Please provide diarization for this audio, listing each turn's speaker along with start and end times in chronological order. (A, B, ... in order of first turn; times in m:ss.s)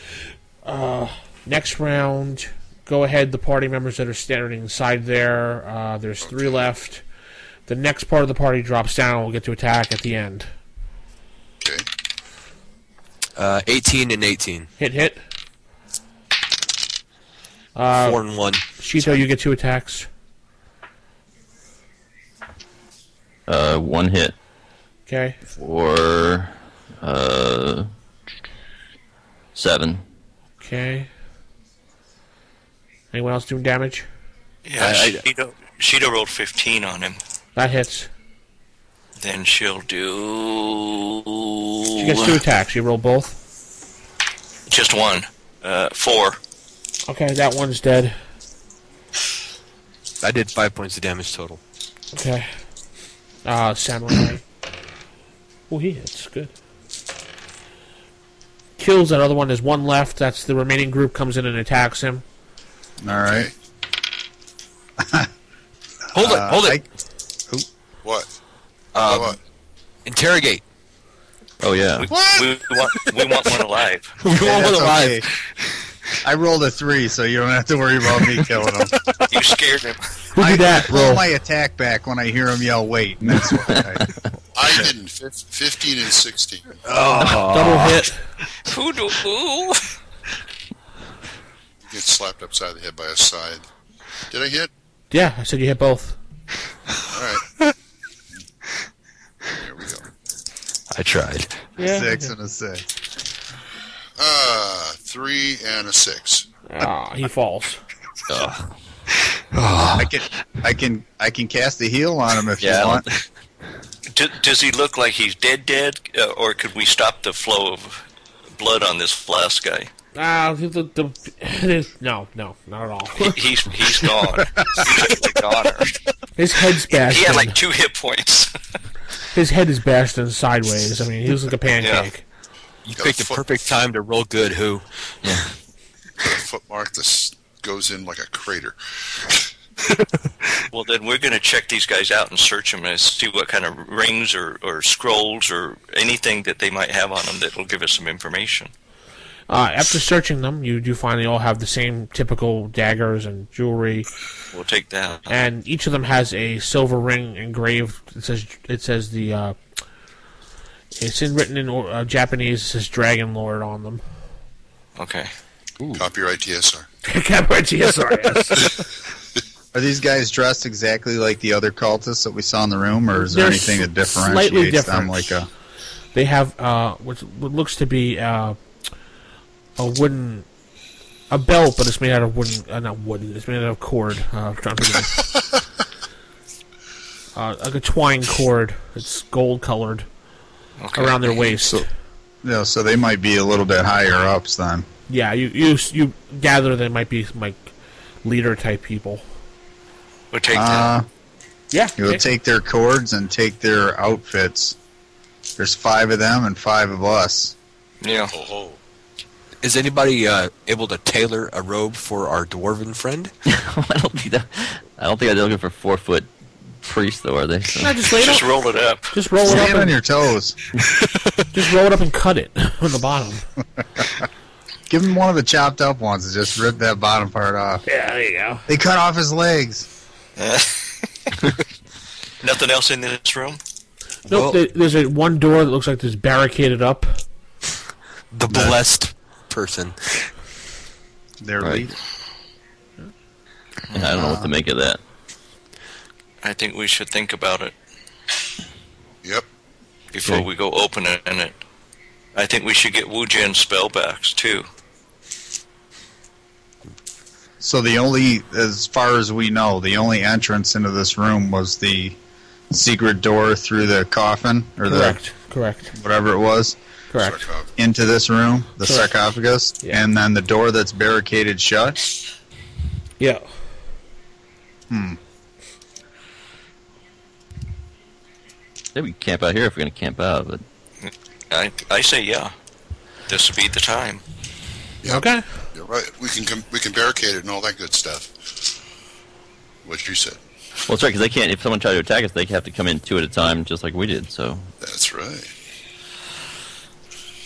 0:00.6-0:07.0 A
0:06.2-0:06.6 B
0:07.7-0:10.5 A
0:13.4-0:14.7 C
0:14.8-0:15.2 A
0:17.8-0:20.1 A
0:18.0-0:19.2 C
0:23.5-0:24.4 D
0:25.1-0:25.4 A
0:25.6-0:27.9 D
0:29.6-0:30.0 D
0:30.6-0:31.1 A
0:33.1-0:34.1 A
0:34.6-0:37.2 E
0:34.8-0:35.2 C
0:37.6-0:38.1 A
0:39.2-0:42.4 E
0:42.0-0:43.4 A
0:44.7-0:46.4 E
0:47.1-0:48.2 A
0:50.2-0:51.6 C
0:52.1-0:52.5 A
0:53.4-0:54.4 A
0:55.7-0:56.5 A
0:58.8-1:02.2 A
1:03.0-1:03.5 F
1:05.0-1:05.3 F
1:06.1-1:06.8 C
1:06.1-1:06.8 F
1:08.0-1:08.3 B
1:09.0-1:09.4 C
1:09.0-1:09.4 B
1:10.1-1:10.6 C
1:11.6-1:12.1 D
1:12.0-1:14.1 E
1:12.1-1:12.6 B
1:14.2-1:15.8 C
1:14.3-1:15.3 F
1:16.2-1:18.9 F
1:19.3-1:20.0 E
1:20.3-1:21.2 A
1:20.4-1:24.0 F
1:24.5-1:26.7 B
1:26.9-1:28.1 C
1:27.2-1:28.2 A
1:28.6-1:29.9 E
1:31.9-1:33.6 B
1:34.3-1:34.7 B
1:35.1-1:36.2 A
1:37.1-1:37.4 B
1:39.5-1:40.1 B
1:40.9-1:41.7 C
1:41.8-1:42.3 A
1:41.8-1:42.8 F
1:44.2-1:46.5 B
1:46.7-1:47.8 A
1:48.3-1:48.6 D
1:49.3-1:50.2 C
1:50.0-1:53.0 F
1:52.6-1:53.0 D
1:54.1-1:59.9 E
2:00.2-2:03.4 A
2:03.2-2:05.9 E
2:06.4-2:07.6 A
2:07.0-2:08.5 E
2:09.3-2:12.2 A
2:11.8-2:12.1 E
2:12.8-2:15.5 C
2:13.0-2:13.7 B
2:16.2-2:19.4 B
2:20.0-2:20.5 C
2:20.7-2:28.7 E
2:29.5-2:34.1 A
2:34.5-2:35.3 E
2:35.3-2:39.6 A
2:41.0-2:44.0 A
2:45.0-2:45.3 E
2:45.8-2:46.1 C
2:45.9-2:46.9 B
2:47.0-2:48.8 A
2:49.7-2:55.5 F
2:53.2-2:55.4 A
2:56.1-2:58.6 A
2:59.8-3:00.5 A
3:01.3-3:05.3 A
3:07.4-3:10.1 A
3:10.8-3:11.5 E
3:11.0-3:11.9 A
3:12.4-3:14.9 F
3:15.1-3:17.7 A
3:18.2-3:19.2 A
3:20.3-3:20.9 E
3:20.5-3:21.1 F
3:21.7-3:22.2 A
3:22.0-3:24.8 F
3:25.6-3:27.5 F
3:28.0-3:28.3 E
3:28.3-3:28.8 B
3:29.6-3:33.3 C
3:33.5-3:36.3 D
3:36.8-3:38.0 D
3:37.8-3:38.5 A
3:38.2-3:39.1 E
3:39.1-3:40.0 A
3:39.4-3:40.6 F
3:41.5-3:43.4 A
3:44.9-3:47.8 F
3:47.9-3:48.7 A
3:48.7-3:49.9 F
3:50.4-3:51.1 E
3:52.4-3:53.6 E
3:54.3-3:57.2 A
3:54.3-3:54.6 C
3:58.3-4:00.3 C
3:58.5-3:58.8 F
4:01.4-4:02.0 F
4:03.9-4:04.2 E
4:03.9-4:05.0 D
4:04.1-4:04.5 F
4:06.4-4:07.7 E
4:10.1-4:11.6 E
4:12.4-4:14.7 E
4:17.6-4:22.2 F
4:22.7-4:25.2 F
4:24.9-4:25.9 A
4:25.9-4:26.8 F
4:27.1-4:27.4 A
4:27.2-4:27.7 B
4:27.8-4:32.1 F
4:28.8-4:29.1 A
4:34.9-4:35.2 F
4:38.9-4:40.6 D
4:41.0-4:42.5 E
4:43.3-4:44.2 E
4:45.0-4:48.3 B
4:45.0-4:45.5 A
4:49.8-4:50.4 B
4:50.9-4:54.7 D
4:54.8-4:55.5 B